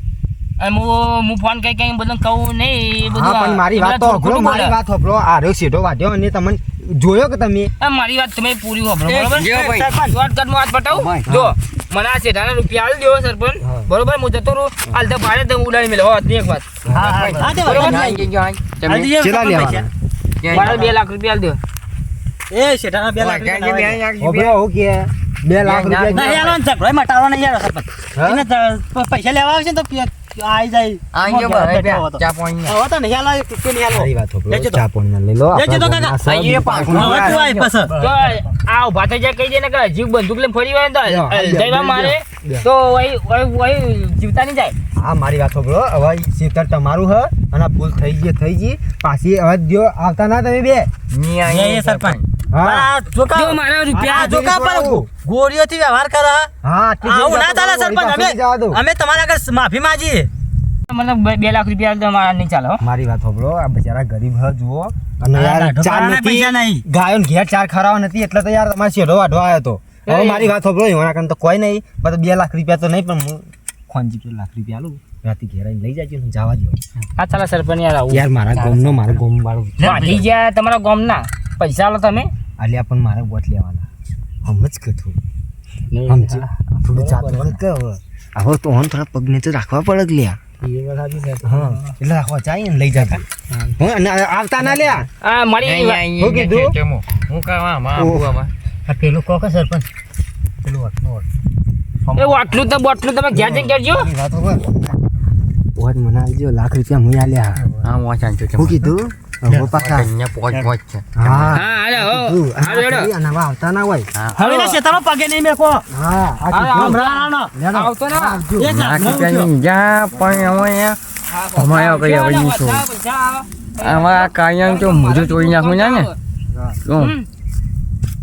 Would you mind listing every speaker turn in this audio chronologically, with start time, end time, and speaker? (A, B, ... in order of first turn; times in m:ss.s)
0:00.6-0:04.7 A
0:03.0-0:07.7 B
0:07.8-0:09.5 A
0:09.0-0:10.0 C
0:09.4-0:10.1 D
0:10.1-0:16.6 A
0:10.9-0:11.2 C
0:11.3-0:11.5 B
0:13.6-0:13.9 B
0:16.8-0:17.4 B
0:16.9-0:19.1 C
0:16.9-0:18.2 D
0:17.6-0:18.1 A
0:18.8-0:19.9 D
0:19.2-0:19.9 B
0:20.4-0:20.9 C
0:20.5-0:21.6 A
0:22.5-0:24.0 D
0:23.2-0:24.5 C
0:24.2-0:26.4 B
0:25.6-0:26.6 C
0:26.1-0:34.8 D
0:28.2-0:28.4 B
0:31.1-0:32.8 C
0:33.9-0:37.6 B
0:35.5-0:36.2 D
0:36.2-0:37.7 C
0:36.9-0:37.9 D
0:37.7-0:38.4 E
0:38.0-0:44.7 A
0:41.1-0:42.6 B
0:45.0-0:50.9 B
0:51.1-0:52.2 C
0:51.4-0:56.5 D
0:52.5-0:52.9 B
0:53.3-0:54.3 A
0:53.9-0:55.1 B
0:56.6-0:58.8 B
0:57.0-1:00.3 D
1:00.9-1:02.8 A
1:02.8-1:16.8 B
1:05.3-1:06.8 D
1:10.1-1:10.5 A
1:17.2-1:18.2 A
1:18.1-1:20.2 B
1:18.5-1:19.1 E
1:19.8-1:20.2 E
1:19.8-1:22.3 A
1:22.6-1:23.9 B
1:24.4-1:25.2 B
1:26.0-1:30.4 B
1:27.0-1:27.5 D
1:30.8-1:31.4 D
1:31.4-1:35.1 B
1:35.2-1:36.0 A
1:35.6-1:38.5 C
1:36.2-1:36.7 B
1:38.0-1:38.2 B
1:38.9-1:39.8 E
1:40.6-1:41.2 E
1:42.2-1:44.1 A
1:43.3-1:45.0 B
1:45.8-1:47.7 B
1:47.8-1:48.9 C
1:48.6-1:50.1 B
1:49.8-1:51.5 C
1:51.2-1:54.1 B
1:51.5-1:53.1 A
1:54.4-1:55.8 D
1:54.4-1:54.8 A
1:55.9-1:57.0 B
1:56.5-1:58.4 A
1:56.7-1:57.5 D
1:57.5-1:59.1 B
1:58.6-1:59.5 D
1:58.8-2:01.0 C
2:01.3-2:06.2 A
2:01.5-2:02.8 C
2:03.8-2:06.1 C
2:06.5-2:06.8 B
2:06.8-2:07.1 C
2:07.0-2:07.3 A